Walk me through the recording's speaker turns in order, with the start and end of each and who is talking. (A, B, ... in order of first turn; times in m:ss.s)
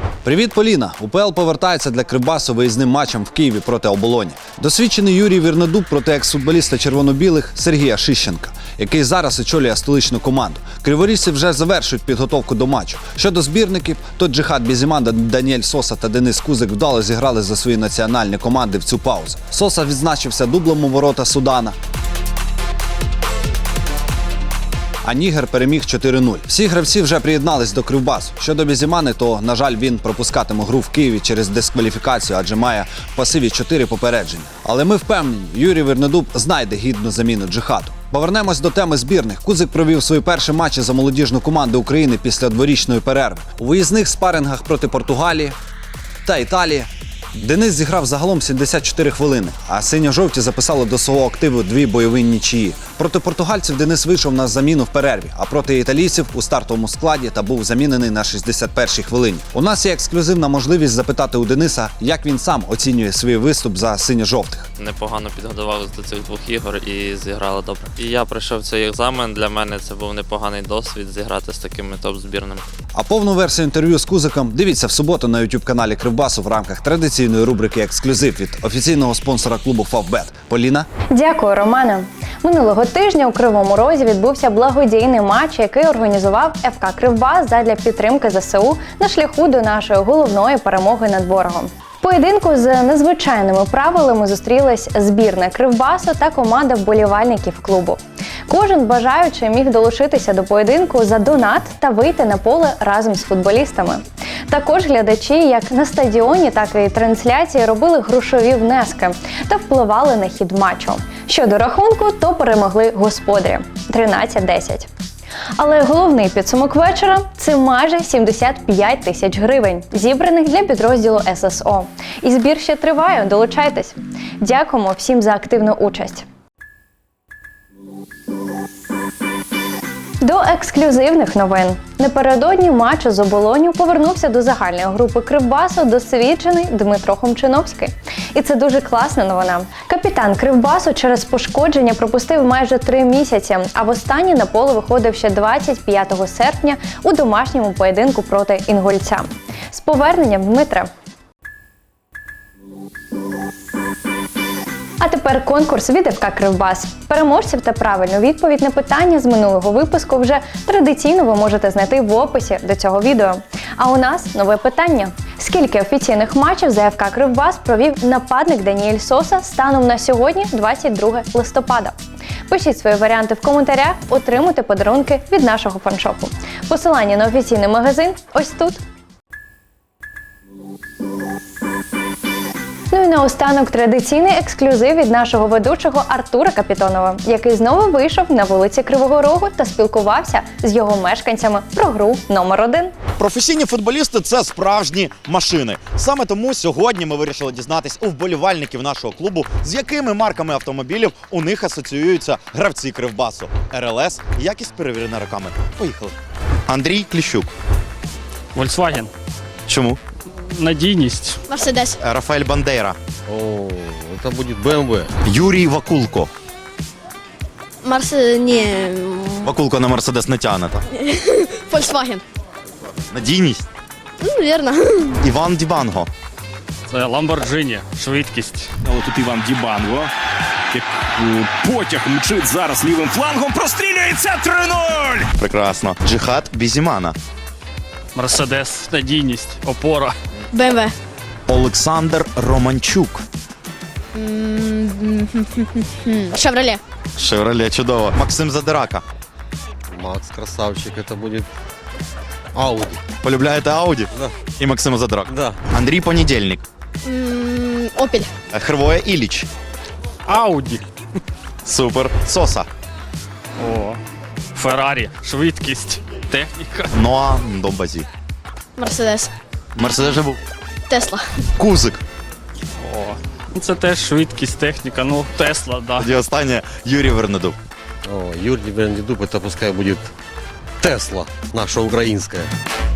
0:00.2-0:21.7 A
0:25.0-0:45.6 A
0:46.2-1:04.7 A
1:04.8-1:12.6 B
1:12.9-1:20.9 A
1:21.1-1:54.9 C
1:55.6-2:06.2 C
2:10.2-2:30.9 C
2:35.0-2:51.9 C
2:52.5-2:58.8 C
3:02.9-3:12.9 C
3:13.2-3:26.1 D
3:26.7-3:27.5 D
3:29.7-3:30.0 D
3:30.6-3:31.1 E
3:31.5-3:32.0 F
3:32.0-3:33.0 D
3:33.3-3:35.1 G
3:35.2-3:36.3 D
3:37.8-3:39.5 F
3:39.4-3:40.8 D
3:40.9-3:42.2 F
3:43.1-3:43.6 D
3:44.2-3:45.1 F
3:45.2-3:46.1 D
3:47.4-3:48.1 E
3:48.8-3:50.0 H
3:50.7-3:55.2 H
3:55.4-3:57.2 D
3:59.2-3:59.7 E
4:00.5-4:00.9 F
4:01.5-4:03.2 D
4:04.1-4:06.8 F
4:07.2-4:09.0 D
4:09.9-4:11.5 G
4:12.5-4:13.0 G
4:13.2-4:16.6 D
4:15.3-4:15.6 G
4:17.0-4:18.3 F
4:18.5-4:19.5 D
4:20.3-4:20.7 E
4:21.6-4:22.7 D
4:23.6-4:24.0 E
4:24.6-4:26.8 E
4:26.9-4:28.0 D
4:28.8-4:29.3 F
4:29.8-4:30.4 D
4:30.9-4:31.4 F
4:31.6-4:32.0 D
4:33.6-4:35.9 E
4:36.0-4:37.6 D
4:38.1-4:40.1 G
4:40.8-4:42.5 G